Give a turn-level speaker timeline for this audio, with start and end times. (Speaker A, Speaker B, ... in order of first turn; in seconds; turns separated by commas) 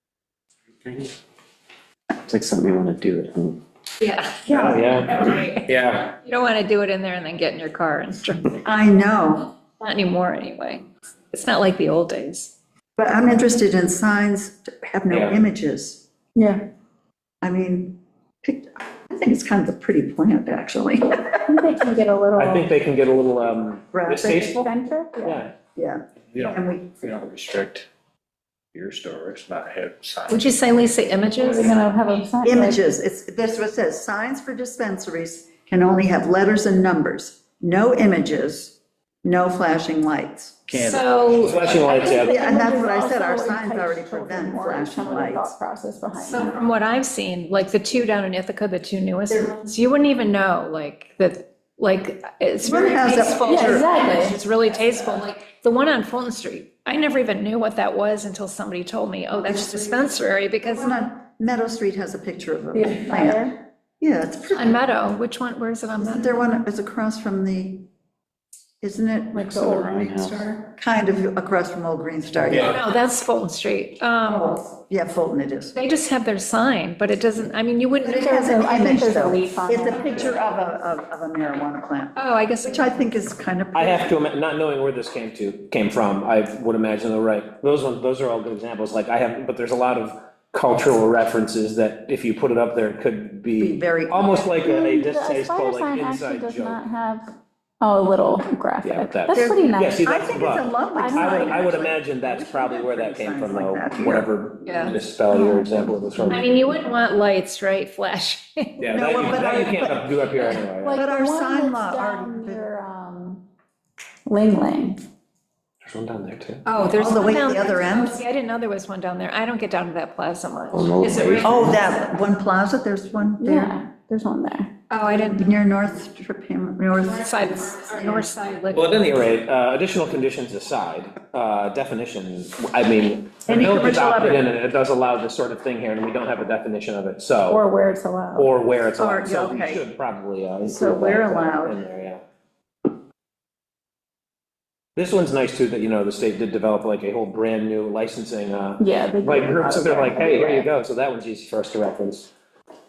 Speaker A: 0.8-1.1, Speaker A: 2.2-3.6, Speaker B: 4.0-8.5, Speaker C: 4.5-4.9, Speaker D: 4.5-6.2, Speaker C: 8.6-9.6, Speaker B: 9.8-12.6, Speaker C: 13.0-16.0, Speaker D: 15.1-15.4, Speaker E: 16.4-16.7, Speaker C: 17.4-21.4, Speaker E: 21.5-22.7, Speaker D: 22.4-24.7, Speaker C: 23.9-24.6, Speaker E: 24.6-25.4, Speaker D: 25.2-25.5, Speaker C: 25.8-27.0, Speaker F: 26.3-27.9, Speaker F: 28.8-30.4, Speaker B: 30.3-31.8, Speaker E: 31.4-32.8, Speaker C: 32.4-40.6, Speaker F: 40.7-42.0, Speaker B: 40.7-42.2, Speaker D: 41.4-42.3, Speaker E: 41.9-46.5, Speaker C: 42.2-45.5, Speaker B: 46.2-61.0, Speaker C: 52.6-53.9, Speaker E: 53.5-54.4, Speaker C: 59.5-59.9, Speaker C: 60.6-64.8, Speaker E: 62.7-63.6, Speaker B: 64.5-66.4, Speaker C: 66.0-67.9, Speaker C: 68.8-70.1, Speaker E: 69.3-70.5, Speaker A: 69.5-70.5, Speaker C: 70.7-72.8, Speaker B: 72.5-74.7, Speaker C: 74.3-75.8, Speaker B: 75.7-78.7, Speaker C: 78.0-84.2, Speaker E: 78.2-80.4, Speaker B: 82.2-83.1, Speaker D: 83.7-96.8, Speaker C: 93.6-94.5, Speaker E: 94.6-97.3, Speaker E: 97.8-100.1, Speaker D: 98.8-106.7, Speaker C: 99.3-104.3, Speaker E: 100.9-101.8, Speaker B: 104.7-105.0, Speaker E: 105.3-106.0, Speaker B: 106.3-108.9, Speaker D: 108.8-111.0, Speaker C: 108.9-110.2, Speaker E: 110.7-113.5, Speaker C: 110.9-112.7, Speaker E: 114.3-115.0, Speaker D: 115.8-116.6, Speaker B: 116.7-121.8, Speaker C: 117.0-118.2, Speaker A: 120.7-121.6, Speaker C: 121.4-123.8, Speaker E: 123.4-124.7, Speaker B: 124.9-125.5, Speaker C: 125.3-128.3, Speaker B: 127.0-129.0, Speaker D: 128.7-137.6, Speaker C: 133.5-134.5, Speaker E: 137.5-138.5, Speaker D: 138.3-142.2, Speaker C: 139.0-139.8, Speaker C: 140.6-141.8, Speaker D: 145.0-152.3, Speaker E: 148.8-150.7